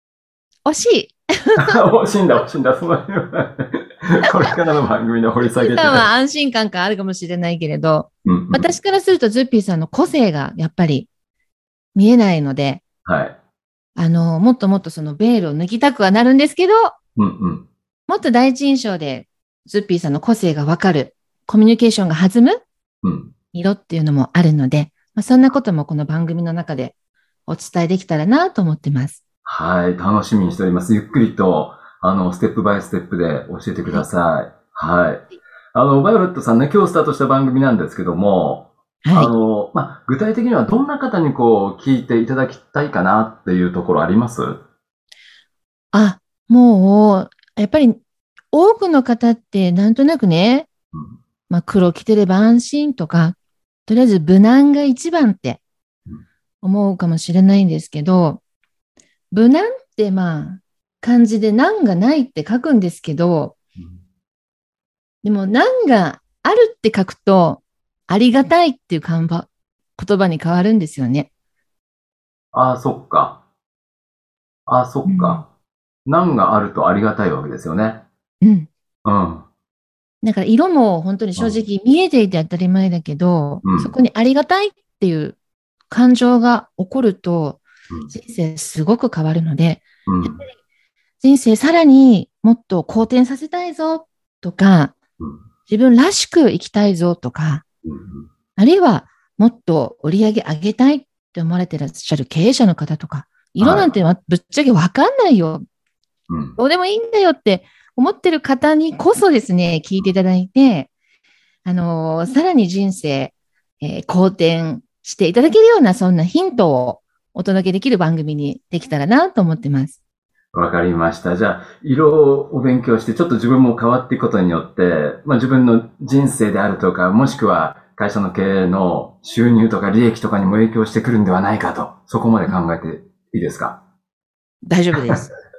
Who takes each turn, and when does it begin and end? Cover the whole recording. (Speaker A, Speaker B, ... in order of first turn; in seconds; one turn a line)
Speaker A: 0.7-1.8
Speaker B: 1.6-6.1
Speaker A: 4.2-4.5
Speaker A: 5.4-11.1
Speaker B: 8.2-8.7
Speaker A: 11.9-12.8
Speaker B: 13.1-13.3
Speaker A: 14.0-16.9
Speaker B: 17.2-17.7
Speaker A: 18.1-22.6
Speaker B: 23.0-23.3
Speaker A: 23.5-26.9
Speaker A: 27.5-29.2
Speaker B: 29.5-44.6
Speaker A: 39.0-39.3
Speaker A: 45.9-48.0
Speaker A: 48.5-50.7
Speaker B: 50.9-51.2
Speaker A: 51.5-55.6
Speaker A: 56.6-58.4
Speaker A: 59.3-63.5
Speaker A: 65.2-71.3
Speaker B: 72.5-73.4
Speaker B: 74.7-75.5
Speaker A: 75.1-75.4
Speaker B: 76.1-78.0
Speaker A: 78.4-78.7
Speaker B: 79.0-79.5
Speaker A: 80.2-85.4
Speaker B: 81.4-81.6
Speaker B: 83.6-83.9
Speaker A: 85.9-90.5
Speaker B: 90.1-90.4
Speaker A: 91.2-95.0
Speaker A: 95.7-97.6
Speaker B: 97.9-98.3
Speaker A: 98.6-105.6
Speaker B: 103.6-103.9
Speaker B: 106.3-106.6
Speaker A: 106.6-110.9
Speaker A: 111.7-120.0
Speaker B: 120.5-133.8
Speaker A: 134.7-135.3